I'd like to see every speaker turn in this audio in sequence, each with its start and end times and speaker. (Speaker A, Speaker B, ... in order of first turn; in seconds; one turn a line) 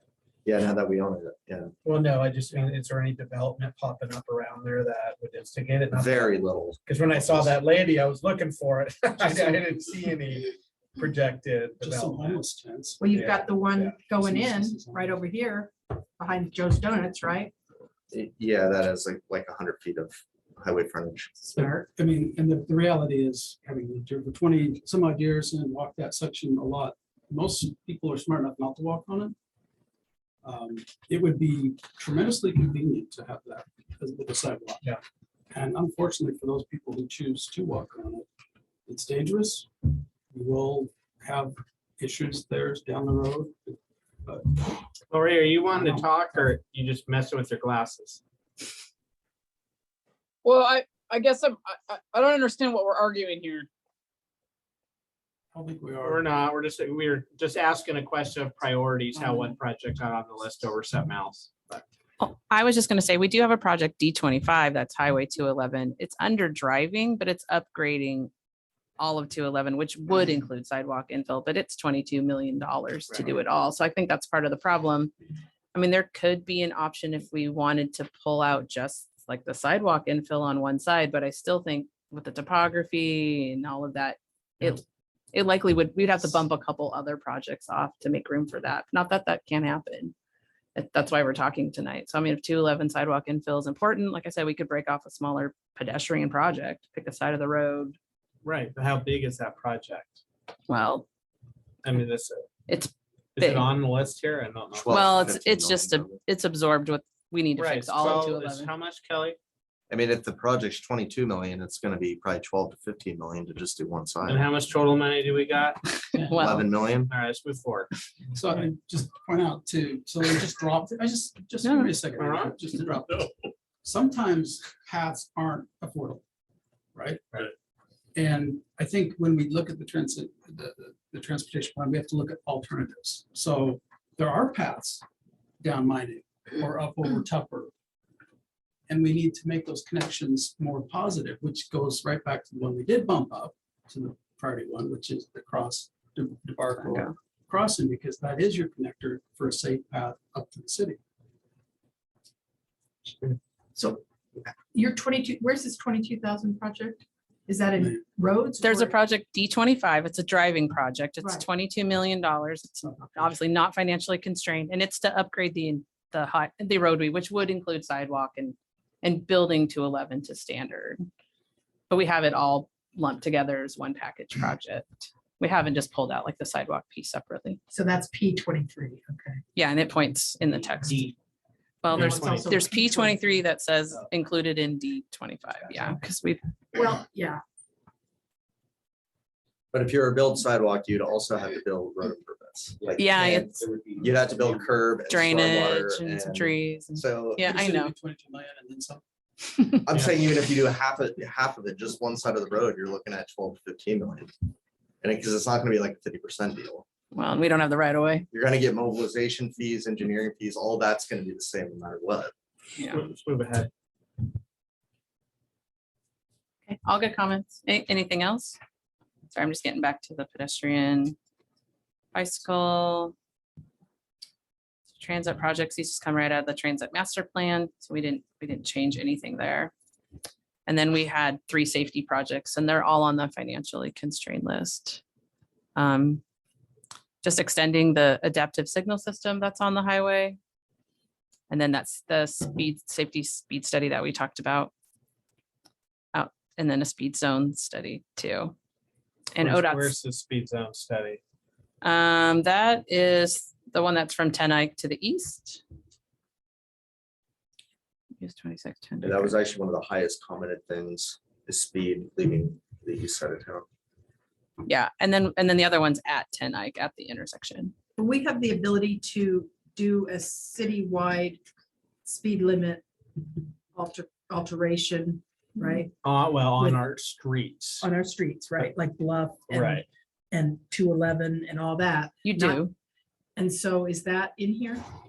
Speaker A: 0.5-1.7
Speaker B: 1.8-6.3
Speaker A: 5.9-6.8
Speaker B: 6.8-12.4
Speaker C: 11.8-13.1
Speaker D: 13.0-17.5
Speaker B: 13.1-14.0
Speaker C: 14.1-15.2
Speaker A: 18.1-21.4
Speaker D: 21.4-21.8
Speaker C: 21.5-29.3
Speaker C: 30.4-34.9
Speaker C: 35.5-38.3
Speaker C: 38.9-44.8
Speaker E: 45.1-48.2
Speaker C: 45.7-46.5
Speaker F: 50.4-53.7
Speaker C: 55.5-56.2
Speaker E: 56.0-61.8
Speaker G: 62.2-68.3
Speaker G: 69.0-75.1
Speaker G: 75.7-90.1
Speaker G: 90.7-98.0
Speaker E: 98.4-100.2
Speaker G: 100.7-101.0
Speaker E: 101.8-102.5
Speaker G: 102.7-103.7
Speaker E: 103.3-105.0
Speaker A: 104.8-106.2
Speaker G: 104.9-108.7
Speaker E: 107.5-109.4
Speaker A: 109.9-114.5
Speaker E: 114.2-115.8
Speaker C: 116.1-116.7
Speaker G: 116.2-116.6
Speaker A: 116.3-117.1
Speaker E: 117.1-117.9
Speaker C: 118.3-123.3
Speaker G: 121.6-122.0
Speaker E: 122.2-122.5
Speaker C: 123.8-126.2
Speaker C: 126.9-127.5
Speaker C: 128.1-135.0
Speaker C: 135.6-137.7
Speaker C: 138.9-151.0
Speaker G: 146.8-147.1
Speaker D: 153.8-158.9
Speaker G: 158.6-171.1
Speaker D: 161.2-161.4
Speaker C: 162.9-163.2
Speaker G: 171.9-177.6
Speaker D: 177.7-179.4
Speaker G: 179.5-181.1
Speaker G: 181.8-186.4
Speaker E: 181.9-182.6
Speaker D: 181.9-183.3
Speaker D: 186.7-187.4
Speaker A: 189.7-197.4
Speaker G: 193.0-193.6
Speaker G: 195.1-197.9
Speaker C: 197.4-199.0
Speaker G: 199.5-199.8
Speaker A: 199.8-204.3
Speaker A: 205.0-206.8
Speaker G: 207.1-208.2
Speaker A: 208.3-212.3
Speaker G: 212.8-213.0
Speaker E: 212.8-213.7
Speaker G: 216.7-218.6
Speaker G: 219.3-221.2
Speaker G: 222.1-223.1
Speaker G: 224.9-229.7
Speaker G: 230.7-235.0
Speaker G: 235.8-236.2
Speaker G: 237.2-240.4
Speaker G: 241.5-244.7
Speaker G: 246.1-248.5
Speaker G: 249.3-249.9
Speaker B: 249.4-251.2
Speaker G: 251.8-255.6
Speaker G: 258.2-259.3
Speaker A: 259.0-263.6
Speaker G: 264.6-267.7
Speaker D: 267.9-271.4
Speaker D: 272.0-272.8
Speaker D: 273.7-275.9
Speaker E: 276.0-277.9
Speaker D: 276.6-276.9
Speaker D: 277.8-282.6
Speaker E: 279.5-279.8
Speaker G: 282.2-282.7
Speaker D: 283.4-284.8